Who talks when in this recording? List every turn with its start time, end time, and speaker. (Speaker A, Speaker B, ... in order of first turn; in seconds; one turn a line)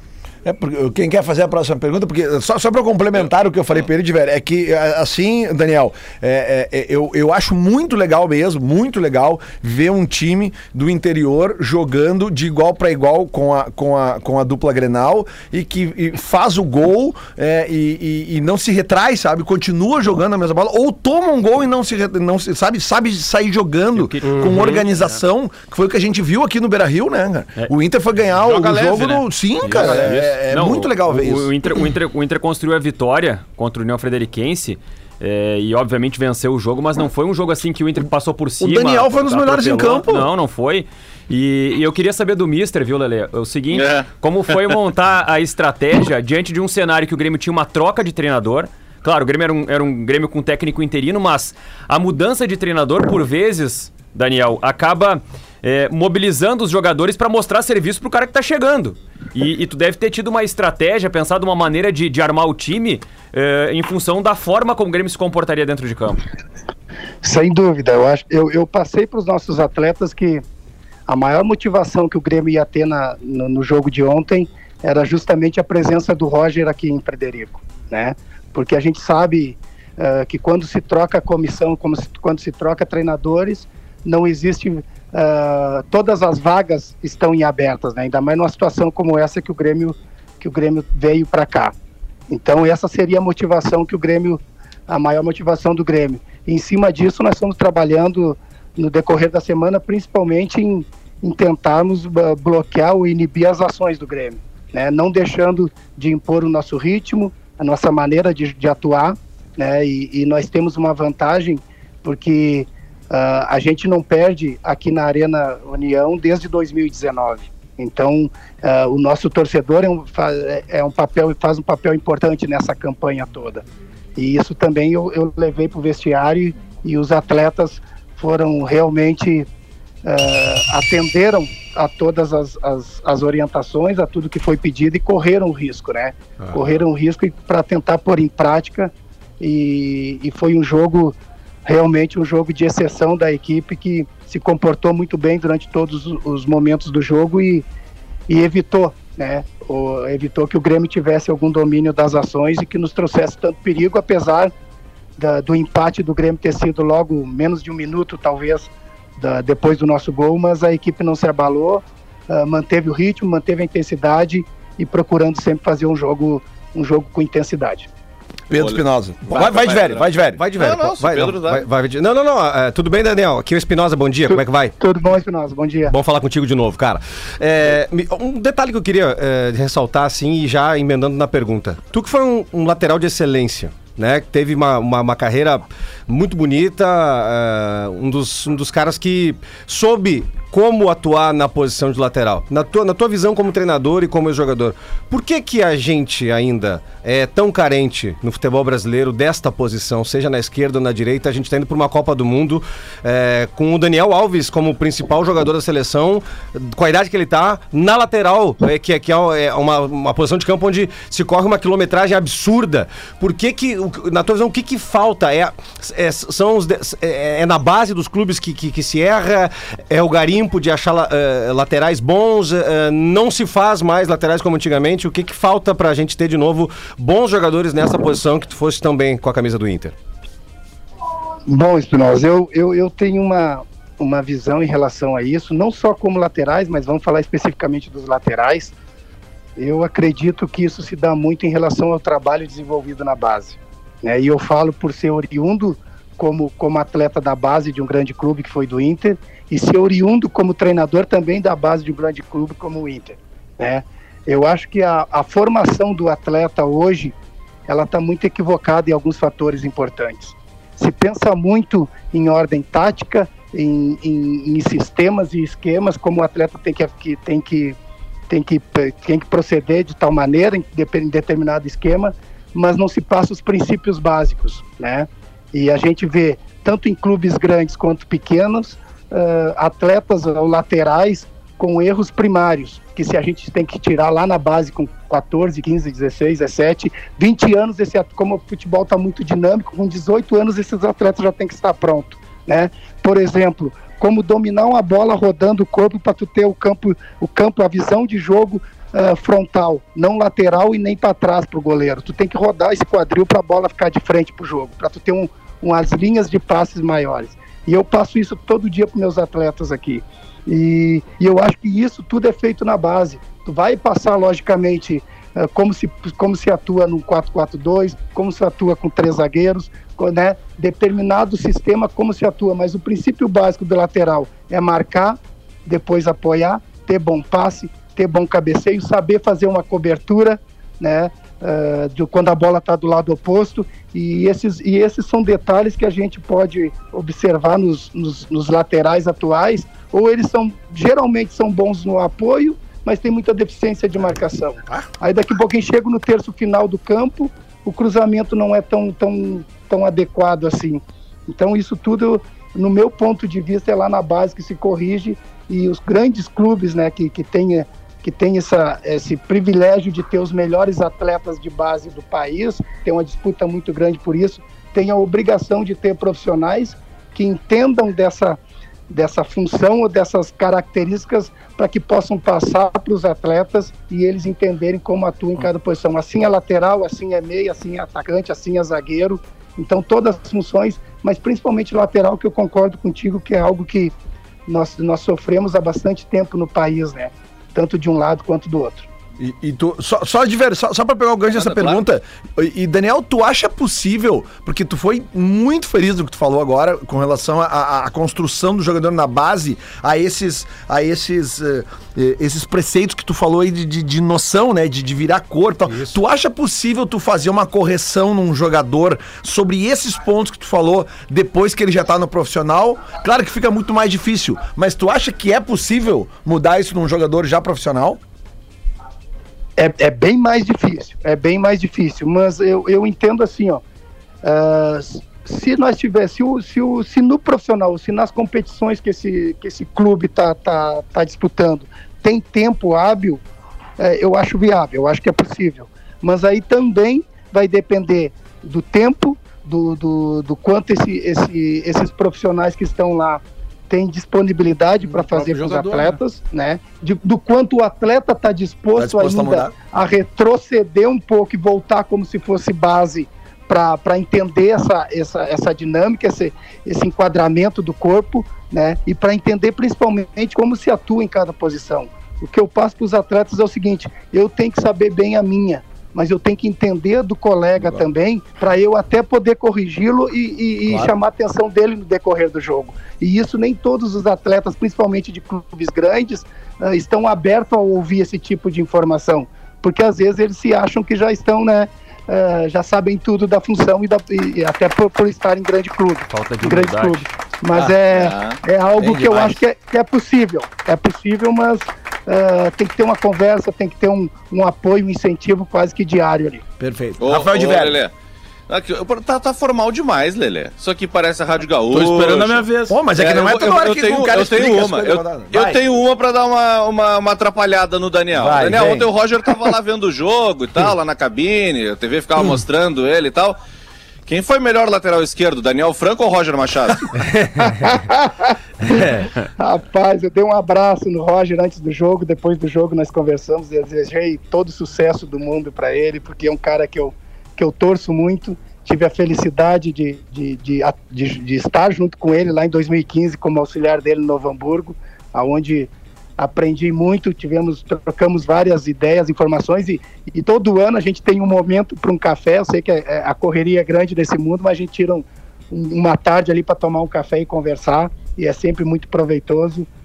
Speaker A: 0.5-31.5
Speaker B: 24.0-25.2
Speaker C: 24.2-24.8
Speaker D: 28.4-30.2
Speaker B: 29.7-66.2
Speaker A: 38.6-40.3
Speaker E: 43.7-44.1
Speaker F: 67.2-70.4
Speaker F: 71.1-91.7
Speaker F: 92.3-123.6
Speaker F: 124.2-129.5
Speaker F: 130.1-147.7
Speaker F: 148.3-154.5
Speaker F: 155.2-167.9
Speaker A: 168.5-170.4
Speaker E: 168.6-171.7
Speaker C: 170.4-174.8
Speaker F: 174.3-175.9
Speaker C: 175.9-229.9
Speaker F: 231.5-238.7
Speaker F: 239.6-257.1
Speaker F: 257.7-267.8
Speaker F: 268.3-368.4
Speaker F: 368.9-383.9
Speaker F: 384.5-388.9
Speaker A: 389.2-418.0
Speaker E: 391.3-391.8
Speaker F: 419.6-423.6
Speaker F: 424.2-433.2
Speaker F: 433.8-496.4
Speaker D: 444.9-446.0
Speaker A: 448.8-449.6
Speaker B: 486.1-487.1
Speaker E: 487.9-488.4
Speaker A: 488.8-489.4
Speaker A: 496.6-497.8
Speaker E: 497.0-497.9
Speaker E: 498.5-502.4
Speaker D: 501.7-502.8
Speaker A: 502.7-505.6
Speaker E: 503.0-513.4
Speaker A: 508.1-508.9
Speaker E: 514.1-516.9
Speaker C: 517.0-517.5
Speaker F: 517.4-549.7
Speaker C: 518.6-519.1